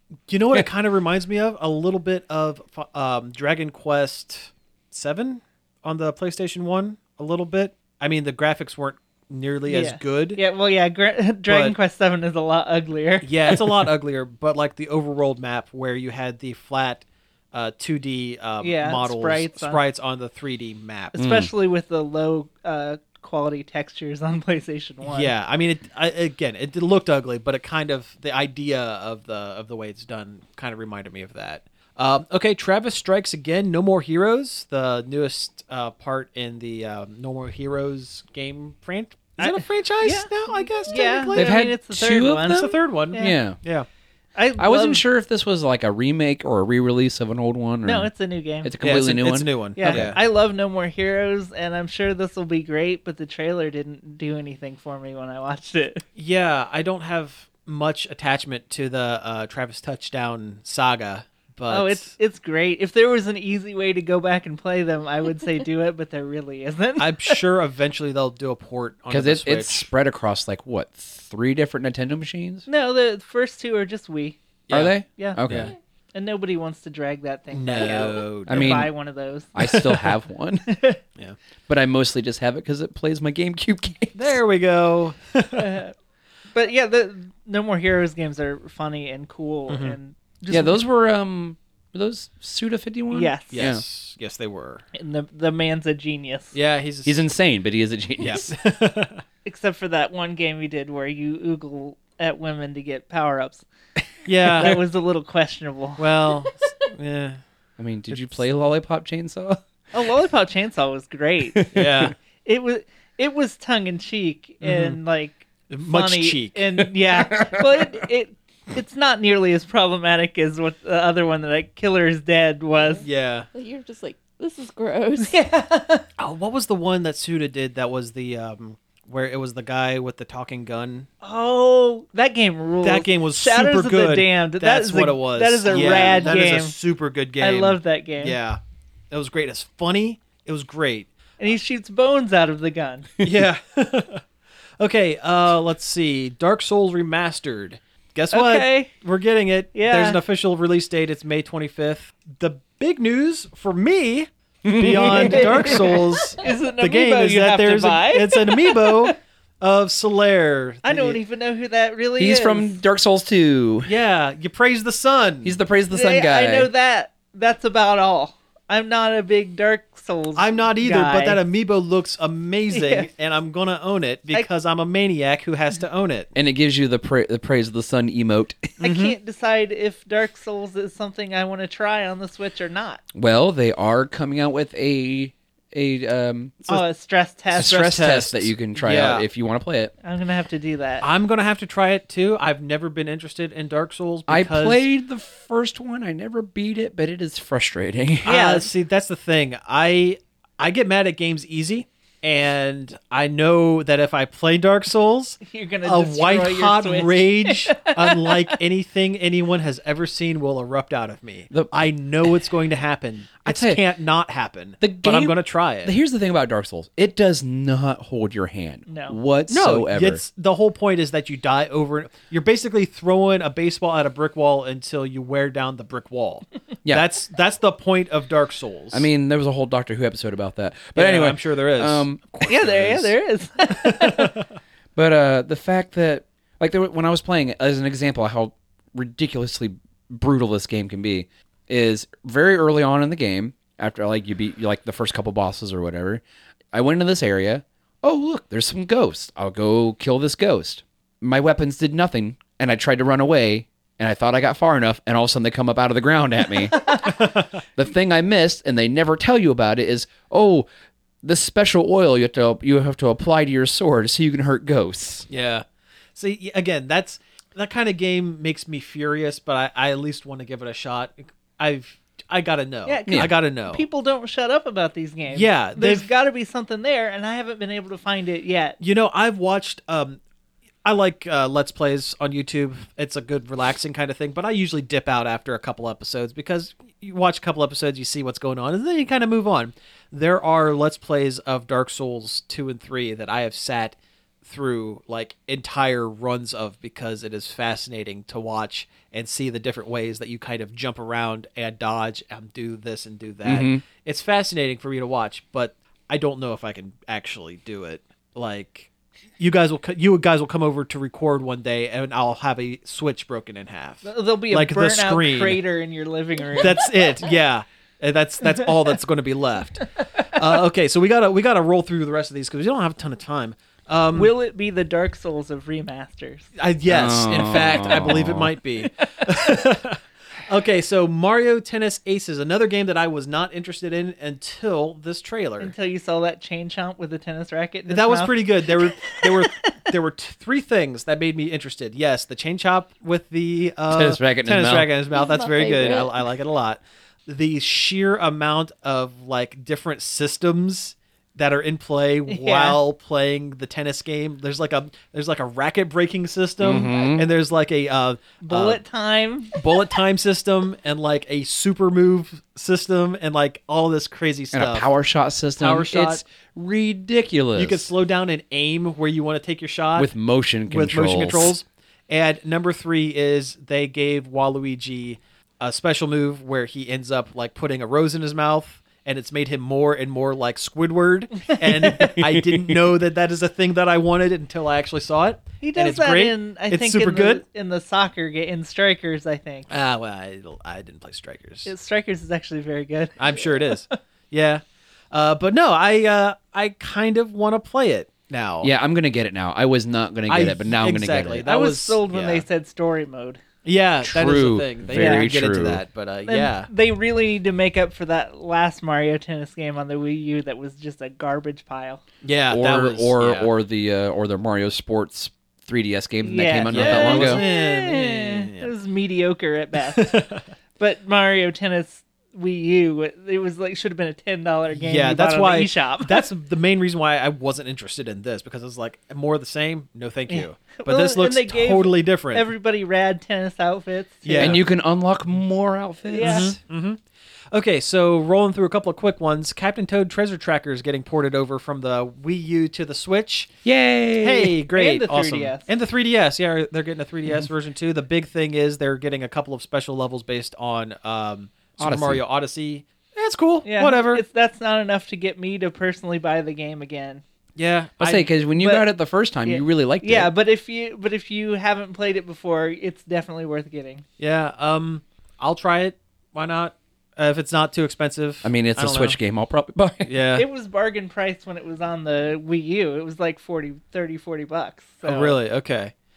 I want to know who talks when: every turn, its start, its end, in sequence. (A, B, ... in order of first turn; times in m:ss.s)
0:00.3-0:10.4 A
0:09.7-0:13.5 B
0:11.5-0:11.8 A
0:13.2-0:21.2 A
0:18.6-0:19.8 B
0:21.1-0:25.3 B
0:21.2-0:21.5 C
0:25.0-0:41.6 A
0:39.4-0:43.4 B
0:41.3-0:43.6 C
0:42.5-0:43.8 A
0:44.3-0:45.0 B
0:44.6-0:48.1 C
0:47.8-0:48.7 B
0:48.6-0:50.1 C
0:48.8-0:50.2 A
0:49.8-0:56.0 B
0:56.2-1:02.1 A
1:01.7-1:07.4 B
1:07.0-1:09.9 A
1:09.1-1:12.6 C
1:12.7-1:14.4 B
1:14.7-1:15.7 A
1:14.7-1:15.7 C
1:16.1-1:19.9 B
1:17.5-1:18.9 A
1:18.5-1:18.9 C
1:19.5-1:20.7 C
1:20.7-1:21.0 B
1:21.7-1:24.4 C
1:24.1-1:25.8 A
1:25.6-1:25.9 B
1:26.5-1:30.8 B
1:29.7-1:30.0 A
1:30.5-1:33.8 C
1:33.1-1:33.6 B
1:33.5-1:34.8 A
1:34.9-1:36.5 B
1:36.5-1:37.2 A
1:37.0-1:38.5 C
1:38.2-1:39.2 A
1:39.4-1:43.6 B
1:44.2-1:44.8 A
1:44.5-1:46.1 B
1:46.0-1:47.4 A
1:47.8-1:49.6 C
1:48.1-1:48.4 A
1:49.9-1:51.6 B
1:51.5-1:52.1 C
1:51.7-1:52.1 A
1:52.4-2:03.0 B
1:54.6-1:55.0 A
1:55.7-1:56.6 A
1:57.1-1:58.0 C
2:02.8-2:05.4 D
2:03.0-2:03.4 A
2:05.2-2:06.0 B
2:06.2-2:11.1 A
2:11.2-2:16.8 B
2:12.8-2:18.6 A
2:17.4-2:18.4 B
2:19.1-2:21.1 A
2:21.4-2:23.1 B
2:23.2-2:24.2 A
2:24.8-2:41.2 A
2:28.3-2:28.9 B
2:29.7-2:30.2 B
2:34.6-2:36.0 C
2:34.9-2:39.1 B
2:40.8-2:42.8 B
2:42.2-2:43.9 C
2:43.8-2:45.6 A
2:45.4-2:46.7 C
2:45.9-2:51.4 B
2:50.4-2:56.3 A
2:52.7-2:53.1 B
2:56.3-2:58.7 C
2:58.8-2:59.1 A
2:58.8-3:03.0 B
3:03.1-3:06.7 C
3:06.7-3:08.0 B
3:07.5-3:09.2 A
3:07.5-3:09.9 C
3:10.0-3:11.1 B
3:11.0-3:14.8 A
3:14.3-3:18.3 C
3:18.2-3:35.9 A
3:18.2-3:18.7 B
3:25.4-3:28.6 B
3:31.5-3:31.9 C
3:33.4-3:33.8 C
3:34.8-3:40.2 C
3:38.9-3:39.2 B
3:39.5-3:49.1 A
3:48.9-3:52.6 C
3:50.9-3:53.1 A
3:52.5-3:54.3 B
3:53.7-3:54.4 A
3:55.0-4:06.2 C
4:06.7-4:17.1 C
4:17.0-4:17.5 A
4:17.8-4:20.7 C
4:21.2-4:25.3 C
4:25.3-4:33.8 A
4:32.8-4:38.8 B
4:35.3-4:36.1 A
4:38.8-4:40.2 A
4:40.8-5:15.6 A
5:03.4-5:03.8 C
5:14.0-5:17.0 B
5:16.6-5:24.3 A
5:24.1-5:26.5 B
5:26.6-5:35.7 A
5:26.9-5:28.5 C
5:35.6-5:39.7 B
5:37.9-5:58.8 A
5:43.9-5:44.9 C
5:45.1-5:46.3 D
5:52.3-5:52.8 B
5:56.6-5:57.3 C
5:58.4-5:59.8 B
5:59.5-6:04.9 A
6:04.5-6:07.9 C
6:05.6-6:06.2 A
6:07.6-6:10.1 A
6:10.0-6:11.5 C
6:10.7-6:27.4 A
6:21.4-6:22.2 B
6:25.6-6:29.7 B
6:29.7-6:31.7 A
6:31.6-6:33.9 B
6:33.2-6:38.7 A
6:38.6-6:41.4 C
6:40.3-6:42.4 A
6:41.4-6:43.4 B
6:43.6-6:46.7 A
6:44.0-6:45.8 C
6:44.9-6:45.3 B
6:46.3-6:52.0 B
6:52.2-6:53.5 A
6:52.5-6:57.4 C
6:56.2-7:00.2 B
6:56.7-6:58.7 A
6:59.9-7:00.4 A
7:00.8-7:06.2 B
7:04.7-7:12.5 A
7:10.3-7:14.6 B
7:14.2-7:14.6 A
7:14.4-7:16.6 C
7:16.1-7:16.5 B
7:16.2-7:17.0 A
7:17.5-7:23.5 A
7:23.6-7:24.5 C
7:24.2-7:34.2 A
7:24.7-7:25.7 B
7:31.8-7:32.2 C
7:33.6-7:37.2 B
7:37.6-7:38.3 A
7:38.0-7:40.3 C
7:38.6-7:38.9 B
7:39.4-7:44.0 B
7:44.2-7:49.2 A
7:48.4-7:50.1 C
7:50.0-7:50.4 A
7:50.4-7:55.4 B
7:55.0-7:55.9 A